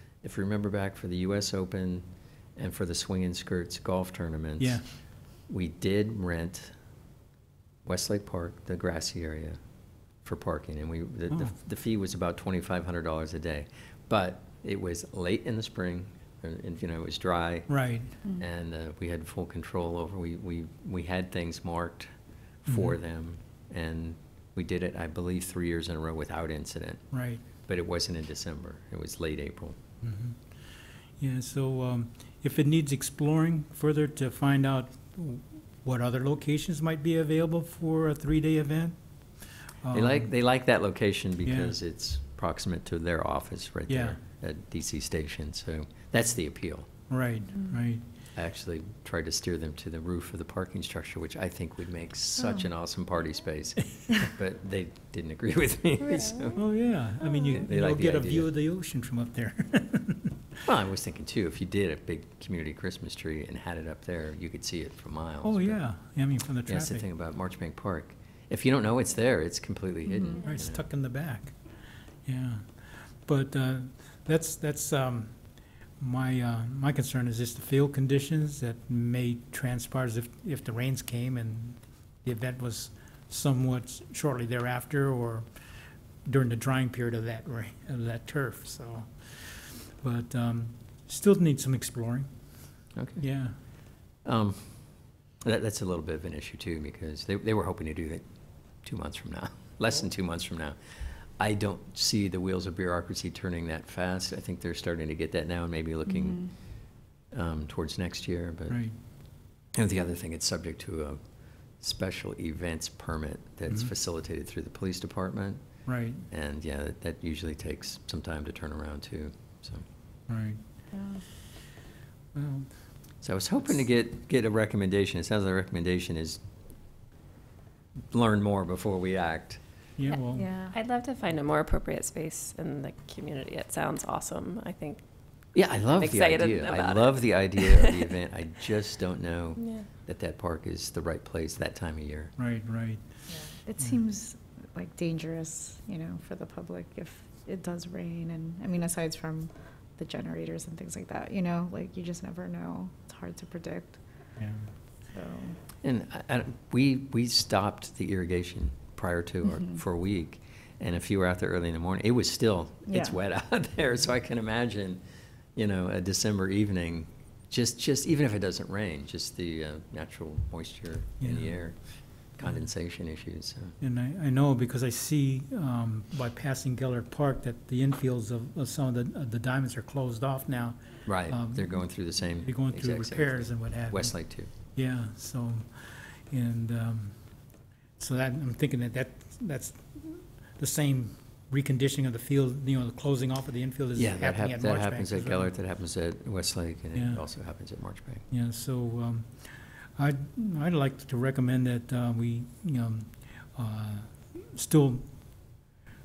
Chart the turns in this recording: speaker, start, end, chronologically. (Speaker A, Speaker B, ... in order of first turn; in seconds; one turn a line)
Speaker A: 0.2-4.8
Speaker B: 4.6-4.8
Speaker A: 5.5-6.7
Speaker A: 7.8-9.6
Speaker A: 10.2-17.7
Speaker B: 17.7-18.1
Speaker A: 18.4-22.1
Speaker A: 22.6-27.0
Speaker B: 22.7-22.9
Speaker B: 27.1-27.4
Speaker A: 27.7-29.8
Speaker B: 30.0-30.4
Speaker B: 31.2-39.0
Speaker B: 39.8-40.3
Speaker A: 39.9-46.9
Speaker B: 41.4-41.8
Speaker B: 43.9-44.2
Speaker B: 47.1-48.0
Speaker A: 48.3-56.7
Speaker C: 56.1-56.5
Speaker B: 56.5-60.4
Speaker A: 57.4-58.5
Speaker A: 60.6-65.8
Speaker B: 65.4-67.0
Speaker A: 66.7-70.8
Speaker B: 70.4-71.5
Speaker B: 72.2-75.3
Speaker B: 76.0-85.5
Speaker B: 86.2-92.3
Speaker A: 93.0-93.2
Speaker B: 93.2-93.5
Speaker A: 94.2-94.7
Speaker A: 95.4-98.2
Speaker A: 98.8-100.8
Speaker A: 101.4-106.5
Speaker D: 106.1-106.5
Speaker A: 107.3-108.8
Speaker B: 108.7-108.9
Speaker A: 109.7-111.2
Speaker A: 111.8-115.6
Speaker B: 115.8-116.2
Speaker A: 116.3-119.8
Speaker B: 120.3-120.6
Speaker D: 120.9-121.2
Speaker B: 122.3-122.7
Speaker A: 123.2-126.4
Speaker A: 128.1-129.6
Speaker B: 130.0-130.5
Speaker D: 130.3-130.7
Speaker C: 130.7-135.0
Speaker A: 135.5-142.3
Speaker C: 135.8-138.1
Speaker C: 139.6-139.8
Speaker B: 142.4-143.0
Speaker D: 143.5-154.0
Speaker B: 154.4-154.7
Speaker D: 155.1-155.6
Speaker A: 155.8-165.0
Speaker D: 162.9-163.2
Speaker A: 165.6-171.8
Speaker B: 171.2-171.6
Speaker A: 172.4-173.8
Speaker B: 173.8-181.8
Speaker A: 181.1-184.5
Speaker B: 182.4-184.1
Speaker B: 184.7-187.2
Speaker B: 188.0-195.5
Speaker A: 193.9-198.2
Speaker B: 196.9-197.2
Speaker B: 198.3-205.0